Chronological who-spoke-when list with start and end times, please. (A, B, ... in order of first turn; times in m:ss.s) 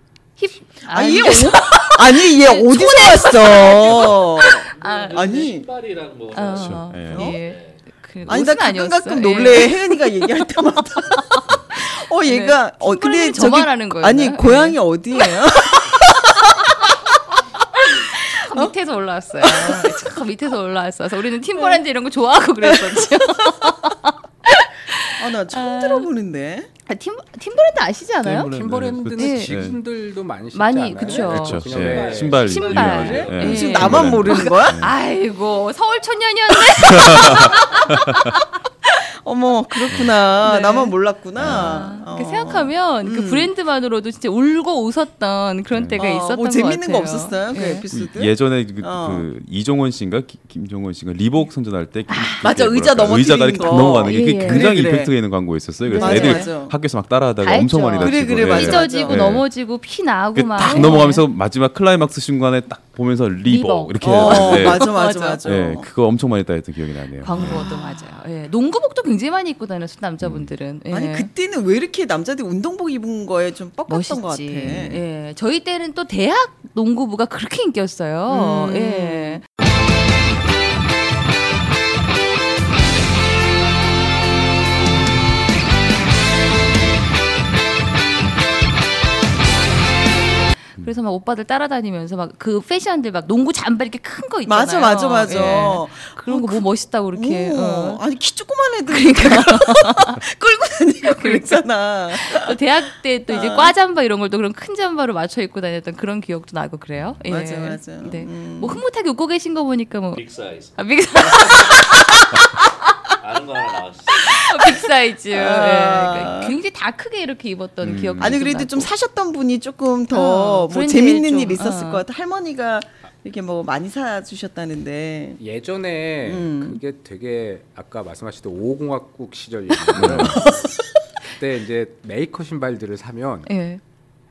0:00.4-0:05.5 A
0:00.9-0:05.7 B
0:04.8-0:07.8 C
0:06.3-0:10.2 A
0:06.5-0:07.4 D
0:07.1-0:07.4 B
0:08.3-0:16.9 B
0:11.1-0:15.3 A
0:17.9-0:18.7 B
0:18.1-0:26.1 A
0:19.4-0:20.1 B
0:22.7-0:23.5 B
0:25.2-0:26.7 B
0:26.9-0:28.5 A
0:28.3-0:29.8 D
0:28.3-0:33.3 E
0:29.2-0:29.6 A
0:30.5-0:31.7 A
0:31.2-0:34.9 D
0:31.8-0:34.8 B
0:32.3-0:38.4 A
0:36.8-0:37.6 D
0:39.2-0:43.5 B
0:39.9-0:47.8 A
0:41.4-0:41.8 D
0:45.7-0:46.0 D
0:46.0-0:49.3 B
0:47.9-0:59.5 D
0:52.1-0:52.5 A
0:52.4-0:55.1 B
0:53.6-0:54.7 A
0:55.8-0:56.5 A
0:55.9-0:56.8 B
0:57.4-1:01.2 A
0:58.0-0:59.3 B
1:00.4-1:07.7 D
1:00.6-1:01.0 B
1:03.5-1:05.4 A
1:04.0-1:05.9 B
1:07.2-1:11.3 A
1:07.3-1:08.2 B
1:10.2-1:10.5 D
1:10.9-1:15.0 B
1:13.9-1:19.4 A
1:14.7-1:15.0 D
1:18.3-1:19.4 B
1:30.8-1:38.0 A
1:34.5-1:42.6 B
1:38.9-1:40.2 A
1:41.1-1:50.2 A
1:43.3-1:43.7 B
1:47.3-1:48.8 B
1:50.2-1:52.0 C
1:50.8-1:52.5 A
1:53.2-1:54.4 C
1:54.2-1:58.9 A
1:55.3-1:56.6 B
1:57.8-1:58.4 D
1:58.2-2:05.4 B
2:00.1-2:02.0 A
2:05.4-2:10.7 E
2:06.2-2:06.8 B
2:10.0-2:10.4 D
2:11.3-2:13.5 E
2:13.5-2:13.8 A